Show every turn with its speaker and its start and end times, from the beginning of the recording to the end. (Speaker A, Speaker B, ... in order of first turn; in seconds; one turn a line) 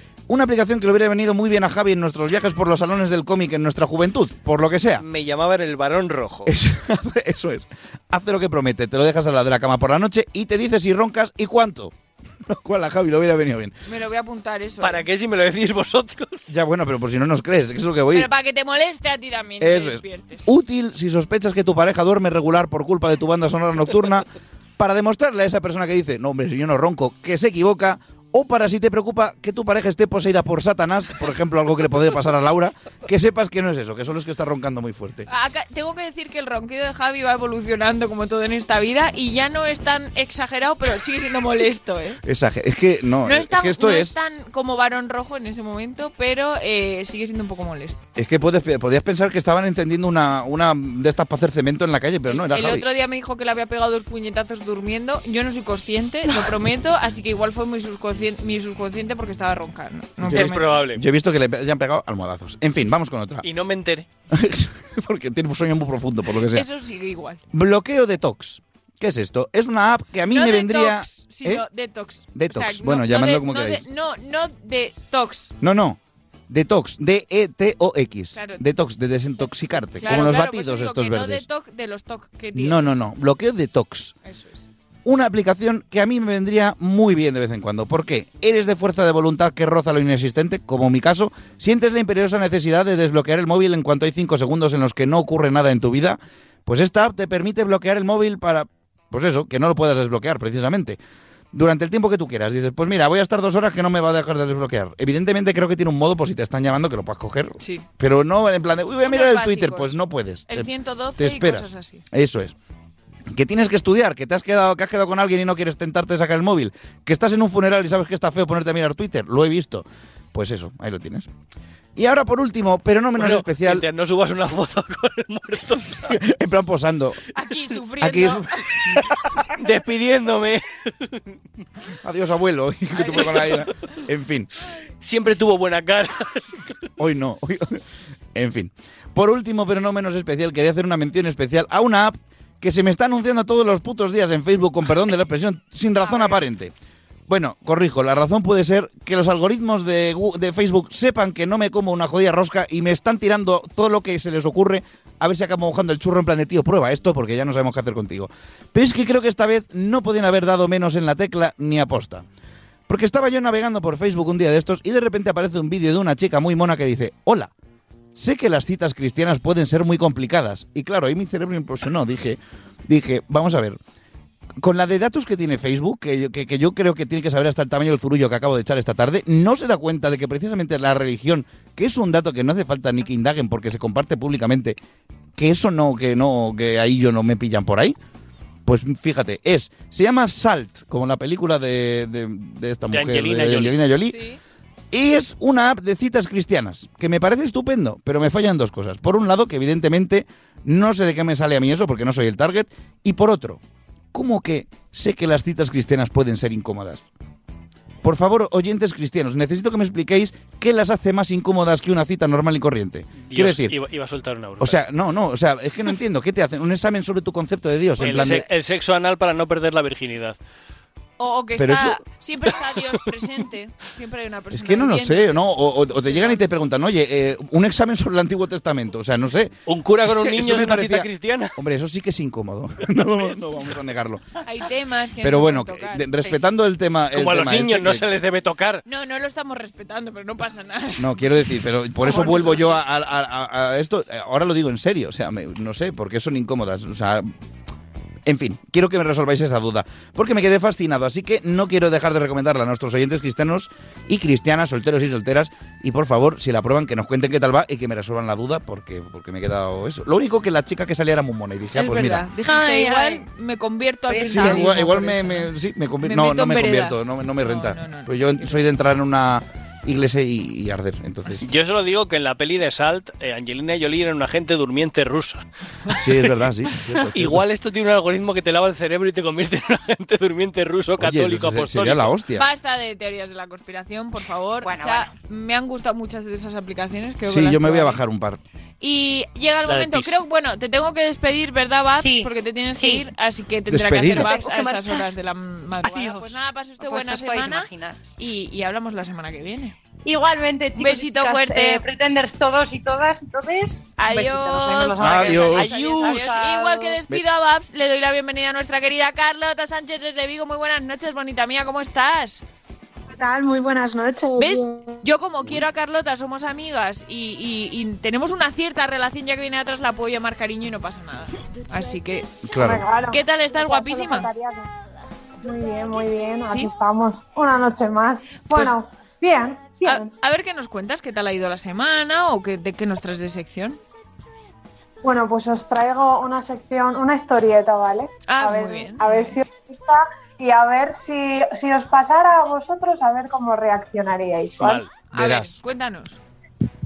Speaker A: 0.3-5.0
Speaker B: 5.0-6.5
Speaker A: 6.5-11.9
Speaker A: 12.4-13.8
Speaker C: 13.9-15.1
Speaker B: 14.8-16.5
Speaker A: 16.5-18.3
Speaker C: 18.1-20.5
Speaker A: 19.6-24.3
Speaker A: 24.8-35.3
Speaker C: 35.3-42.2
Speaker A: 42.2-44.2
Speaker C: 43.2-48.0
Speaker A: 48.2-52.9
Speaker C: 52.3-60.7
Speaker A: 60.2-63.5
Speaker B: 60.3-61.0
Speaker B: 63.4-64.1
Speaker A: 64.3-66.7
Speaker C: 66.5-67.4
Speaker A: 67.5-71.7
Speaker C: 70.3-75.5
Speaker A: 72.3-73.9
Speaker A: 75.6-81.5
Speaker C: 78.3-78.6
Speaker C: 80.0-83.0
Speaker A: 82.5-84.2
Speaker C: 84.2-84.7
Speaker A: 85.0-101.0
Speaker A: 101.5-112.5
Speaker C: 107.6-107.9
Speaker C: 109.0-112.0
Speaker A: 113.3-121.3
Speaker A: 122.0-123.8
Speaker B: 123.2-126.2
Speaker A: 126.1-127.2
Speaker C: 127.3-128.8
Speaker A: 128.0-129.3
Speaker B: 129.5-131.4
Speaker A: 132.0-134.5
Speaker C: 132.9-133.5
Speaker B: 135.0-136.5
Speaker A: 137.0-137.8
Speaker A: 138.3-146.7
Speaker C: 146.0-146.4
Speaker A: 147.3-162.2
Speaker A: 162.9-167.5
Speaker A: 168.2-173.8
Speaker A: 174.6-184.8
Speaker A: 185.4-188.0
Speaker A: 188.7-194.2
Speaker B: 192.9-193.8
Speaker C: 194.1-194.4
Speaker A: 194.9-203.6
Speaker A: 204.1-207.0
Speaker A: 208.0-213.8
Speaker B: 213.3-214.8
Speaker A: 214.6-218.4
Speaker B: 218.0-220.4
Speaker C: 218.0-218.4
Speaker C: 221.2-226.4
Speaker A: 221.6-222.0
Speaker A: 224.5-229.5
Speaker B: 229.7-231.6
Speaker A: 230.1-234.4
Speaker C: 234.4-236.1
Speaker A: 235.2-238.1
Speaker B: 237.1-238.8
Speaker C: 238.8-241.5
Speaker A: 241.0-247.3
Speaker C: 242.0-242.8
Speaker A: 248.3-262.3
Speaker C: 261.8-265.5
Speaker D: 262.4-263.2
Speaker D: 264.1-264.8
Speaker A: 264.3-271.5
Speaker C: 266.0-268.6
Speaker B: 271.4-276.5
Speaker A: 276.0-277.4
Speaker B: 277.1-282.1
Speaker A: 281.0-282.5
Speaker C: 282.4-288.0
Speaker D: 284.6-285.1
Speaker A: 287.2-288.4
Speaker C: 288.8-299.8
Speaker B: 289.7-290.2
Speaker D: 291.9-293.1
Speaker A: 293.7-294.4
Speaker D: 294.1-295.1
Speaker B: 295.8-296.3
Speaker D: 296.8-298.0
Speaker D: 300.1-307.0
Speaker C: 300.8-301.9
Speaker C: 304.0-312.4
Speaker A: 305.0-305.9
Speaker B: 305.6-306.4
Speaker E: 313.1-315.0
Speaker C: 314.4-322.4
Speaker A: 322.4-322.8
Speaker E: 322.5-324.7
Speaker C: 323.1-324.3
Speaker E: 325.4-330.1
Speaker C: 326.5-326.7
Speaker C: 328.5-328.8
Speaker C: 329.8-333.8
Speaker E: 335.0-344.8
Speaker C: 338.3-339.4
Speaker B: 344.6-344.9
Speaker C: 345.1-346.2
Speaker A: 345.1-345.6